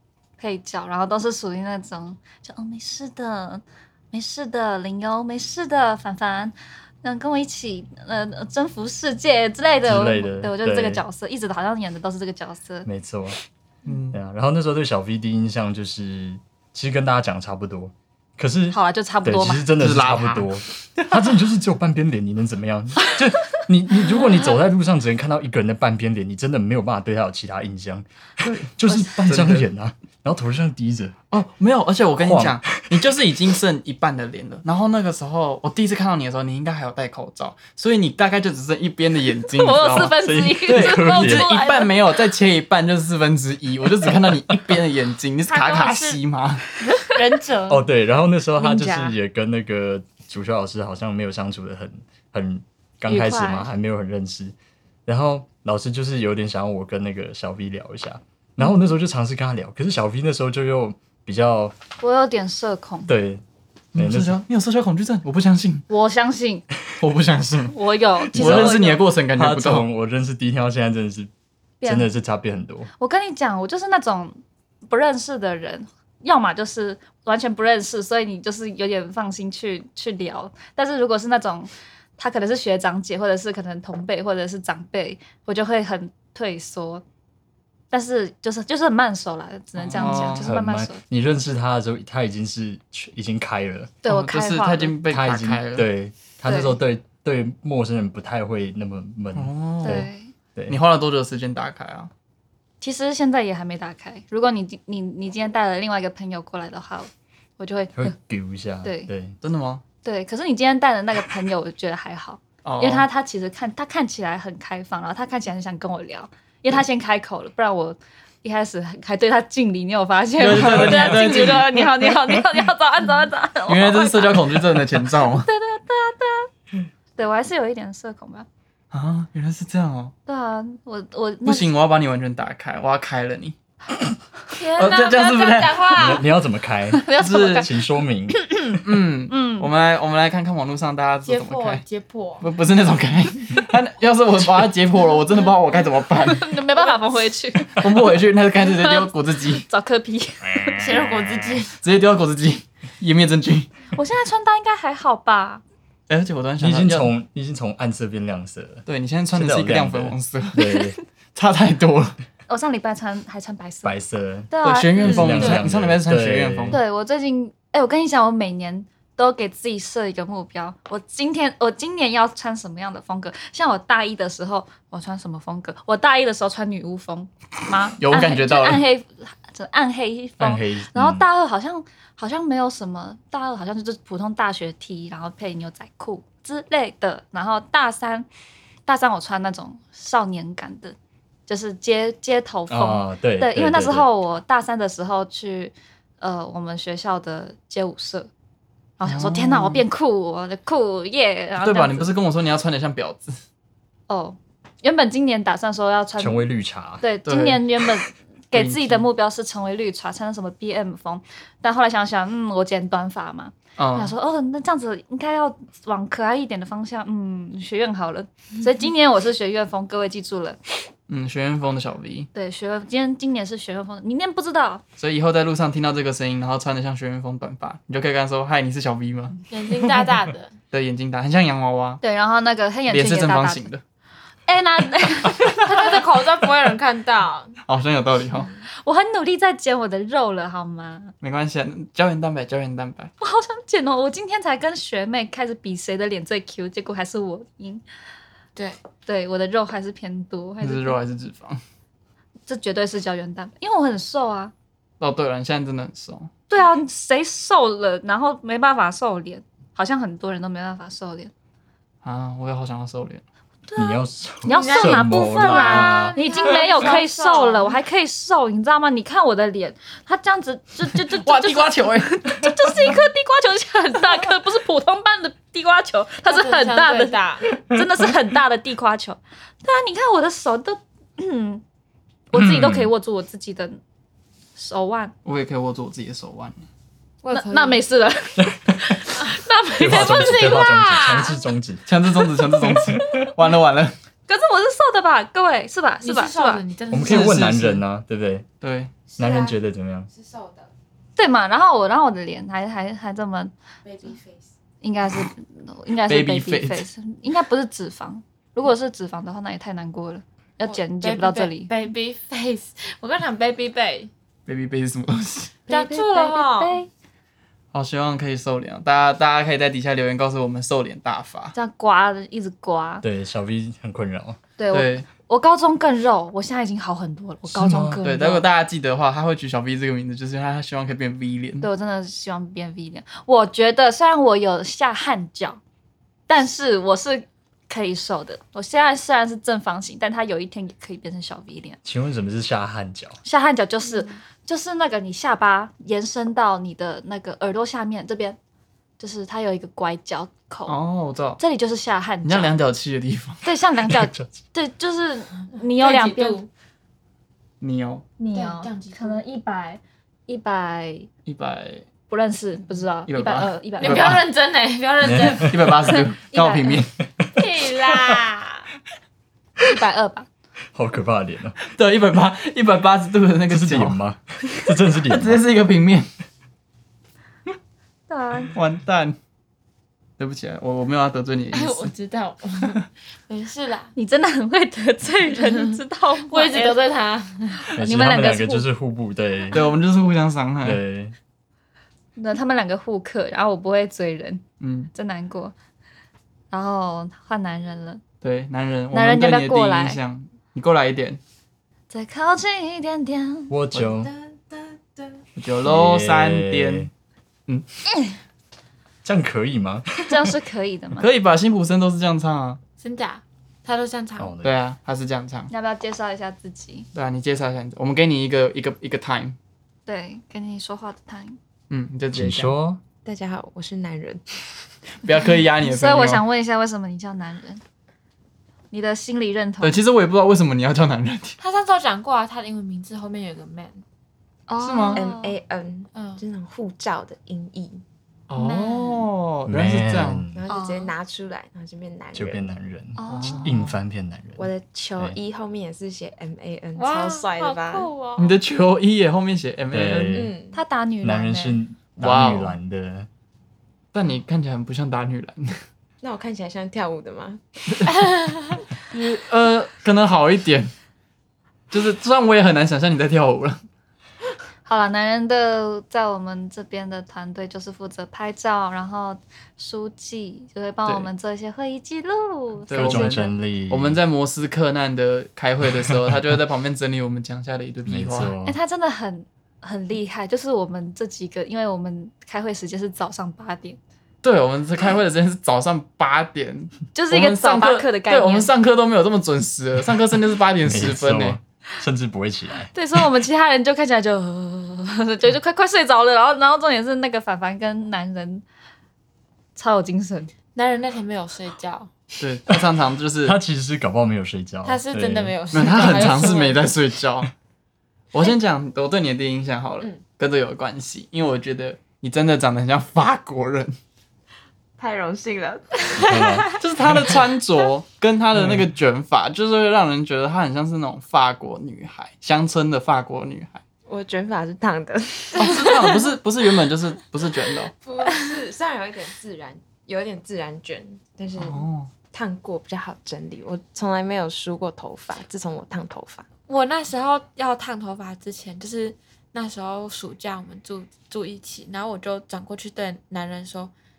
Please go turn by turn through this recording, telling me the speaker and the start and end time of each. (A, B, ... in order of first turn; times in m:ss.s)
0:00.4-0:12.9 A
0:09.8-0:11.0 B
0:12.9-0:13.4 B
0:13.8-0:14.2 C
0:14.1-0:31.2 B
0:18.7-0:19.7 A
0:19.8-0:21.2 C
0:28.4-0:28.7 C
0:28.9-0:29.1 A
0:29.2-0:29.7 C
0:31.3-0:46.7 C
0:32.2-0:33.1 B
0:39.5-0:42.0 A
0:40.0-0:41.6 B
0:45.5-0:46.2 D
0:47.0-0:47.8 D
0:47.7-0:54.6 B
0:48.6-0:49.1 A
0:53.1-0:53.7 A
0:55.1-1:01.8 B
1:02.0-1:03.1 A
1:03.1-1:03.4 B
1:03.9-1:05.9 C
1:04.0-1:04.4 B
1:05.9-1:06.6 A
1:07.0-1:07.8 C
1:07.7-1:09.0 A
1:08.3-1:11.3 B
1:08.3-1:09.9 C
1:11.8-1:12.1 A
1:11.8-1:12.9 B
1:13.0-1:14.4 A
1:14.9-1:27.0 A
1:27.9-1:31.0 A
1:29.8-1:30.5 C
1:30.0-1:34.0 B
1:34.0-1:35.0 A
1:34.0-1:35.9 C
1:35.1-1:40.8 B
1:36.4-1:36.8 A
1:39.4-1:40.1 C
1:39.8-1:40.3 A
1:40.7-1:42.1 C
1:42.8-1:48.1 A
1:47.9-1:49.4 B
1:48.8-1:49.1 A
1:49.4-1:49.8 C
1:50.0-2:06.5 A
1:52.6-1:53.1 C
2:00.4-2:02.4 C
2:00.5-2:01.2 B
2:03.7-2:05.5 C
2:07.2-2:08.5 A
2:08.9-2:10.1 C
2:10.3-2:11.7 A
2:11.4-2:13.6 C
2:14.6-2:16.3 D
2:14.8-2:16.0 C
2:16.0-2:18.4 B
2:16.9-2:17.7 A
2:17.2-2:17.7 C
2:18.3-2:19.7 A
2:18.8-2:21.8 C
2:21.3-2:22.5 D
2:22.4-2:26.5 C
2:26.2-2:27.9 A
2:27.8-2:29.7 C
2:28.6-2:30.8 A
2:30.8-2:31.8 D
2:31.8-2:33.7 C
2:33.9-2:35.6 A
2:36.1-2:37.1 C
2:36.6-2:41.0 B
2:38.9-2:40.6 C
2:40.6-2:40.9 A
2:41.4-2:42.2 C
2:42.5-2:44.0 A
2:43.8-2:46.8 B
2:44.5-2:45.6 A
2:44.6-2:46.8 C
2:46.7-3:08.3 A
2:58.0-2:58.8 C
3:00.4-3:01.2 B
3:08.9-3:11.0 A
3:11.5-3:18.3 A
3:12.7-3:14.1 B
3:19.0-3:22.1 A
3:19.0-3:19.8 C
3:21.6-3:23.4 C
3:24.1-3:26.4 A
3:26.2-3:27.0 B
3:27.0-3:40.6 A
3:27.3-3:27.9 C
3:28.5-3:29.1 C
3:33.8-3:34.1 C
3:41.1-3:42.3 C
3:42.3-3:44.8 A
3:45.0-3:49.4 C
3:49.5-3:50.5 D
3:50.7-3:52.0 C
3:52.0-3:53.7 A
3:52.9-3:53.8 C
3:54.5-3:55.9 A
3:55.6-3:57.6 D
3:57.7-3:58.5 C
3:58.8-4:01.1 A
4:01.2-4:03.1 C
4:03.2-4:07.8 A
4:09.1-4:11.0 A
4:10.6-4:11.6 C
4:12.5-4:14.5 A
4:15.0-4:16.3 C
4:16.5-4:21.3 A
4:22.0-4:23.2 C
4:23.7-4:41.6 A
4:23.8-4:26.2 B
4:24.5-4:27.8 D
4:31.0-4:32.5 C
4:36.3-4:37.5 D
4:42.3-4:43.8 A
4:42.3-4:42.9 B
4:44.6-4:45.1 A
4:45.2-4:46.6 C
4:47.2-4:47.8 D
4:47.3-4:50.7 A
4:48.4-4:49.0 B
4:49.8-4:53.3 B
4:49.8-4:51.4 D
4:51.9-4:53.9 C
4:54.3-4:56.6 A
4:56.0-4:57.4 D
4:56.9-4:58.5 B
4:57.0-4:57.8 C
4:58.6-4:58.9 C
4:59.2-5:00.1 B
4:59.2-4:59.5 D
5:00.2-5:00.7 E
5:01.2-5:03.5 A
5:03.9-5:04.2 D
5:04.1-5:04.4 E
5:04.8-5:11.7 A
5:06.1-5:06.8 C
5:10.6-5:14.1 D
5:14.5-5:15.6 C
5:15.7-5:16.8 D
5:15.7-5:16.9 A
5:17.7-5:21.5 C
5:21.5-5:23.0 A
5:23.0-5:24.4 B
5:24.6-5:28.4 A
5:24.7-5:25.1 C
5:27.5-5:28.0 B
5:28.0-5:31.7 C
5:31.6-5:35.6 A
5:36.3-5:41.8 A
5:41.8-5:43.2 B
5:43.2-5:48.4 A
5:49.0-5:50.8 A
5:50.7-5:51.4 C
5:51.4-5:52.5 A
5:52.2-5:53.4 C
5:53.4-5:56.4 A
5:55.6-5:56.5 D
5:57.6-5:58.1 C
5:58.2-6:01.1 A
5:58.3-5:59.2 D
6:01.3-6:01.8 C
6:02.1-6:04.2 A
6:03.1-6:04.2 C
6:03.8-6:05.7 D
6:05.0-6:05.7 B
6:05.4-6:06.9 C
6:05.9-6:06.8 A
6:07.4-6:08.6 D
6:09.6-6:10.3 A
6:10.7-6:11.6 B
6:11.6-6:14.0 C
6:13.5-6:15.4 B
6:15.0-6:16.1 C
6:18.1-6:18.6 A
6:18.5-6:19.2 C
6:20.2-6:21.9 C
6:21.5-6:23.9 D
6:24.0-6:26.8 A
6:25.6-6:27.7 D
6:27.6-6:28.7 A
6:27.8-6:29.7 B
6:29.5-6:30.8 C
6:30.6-6:31.2 B
6:32.2-6:34.4 A
6:34.6-6:34.9 C
6:34.9-6:35.5 A
6:36.5-6:38.0 A
6:38.2-6:41.2 C
6:38.9-6:40.0 A
6:41.9-6:43.5 A
6:43.5-6:44.1 B
6:45.4-6:46.9 C
6:45.6-6:46.9 B
6:49.0-6:50.3 B
6:50.1-6:51.1 A
6:51.0-6:52.6 C
6:52.8-6:54.3 D
6:54.2-6:54.6 B
6:54.4-6:55.5 C
6:55.5-6:56.9 A
6:56.9-6:59.4 C
6:59.9-7:01.4 A
7:01.7-7:02.5 C
7:02.1-7:02.8 B
7:03.0-7:04.2 E
7:05.0-7:06.2 C
7:05.6-7:07.6 A
7:08.7-7:09.8 A
7:09.6-7:11.4 C
7:11.4-7:13.8 D
7:14.5-7:15.4 A
7:14.6-7:15.0 C
7:14.9-7:17.8 E
7:15.9-7:16.2 D
7:18.3-7:20.2 C
7:18.4-7:19.1 D
7:19.5-7:20.4 B
7:20.3-7:22.5 E
7:20.5-7:20.9 A
7:22.1-7:25.2 B
7:23.0-7:23.5 A
7:23.1-7:23.8 C
7:24.4-7:27.9 E
7:26.8-7:28.4 D
7:28.2-7:30.3 C
7:29.7-7:30.3 B
7:30.1-7:30.6 E
7:30.5-7:31.6 A
7:31.0-7:33.1 B
7:32.0-7:32.6 C
7:33.9-7:35.6 C
7:36.0-7:37.4 E
7:38.0-7:38.6 D
7:38.9-7:40.7 C
7:41.7-7:43.6 C
7:44.7-7:53.3 A
7:52.7-7:58.3 C
7:52.7-7:54.0 B
7:57.9-7:58.6 B
7:58.4-8:03.8 A
8:04.2-8:11.4 C
8:06.9-8:08.5 A
8:10.6-8:12.7 B
8:12.7-8:18.4 A
8:19.6-8:20.3 A
8:20.6-8:21.9 D
8:22.2-8:23.4 C
8:23.2-8:26.3 B
8:24.6-8:26.7 D
8:25.5-8:27.3 C
8:28.1-8:33.7 C
8:34.8-8:36.3 E
8:36.0-8:36.5 D
8:36.0-8:37.2 B
8:36.6-8:43.6 C
8:43.9-8:46.0 E
8:45.4-8:47.7 C
8:47.8-8:56.3 E
8:51.4-8:51.9 C
8:56.5-9:03.7 D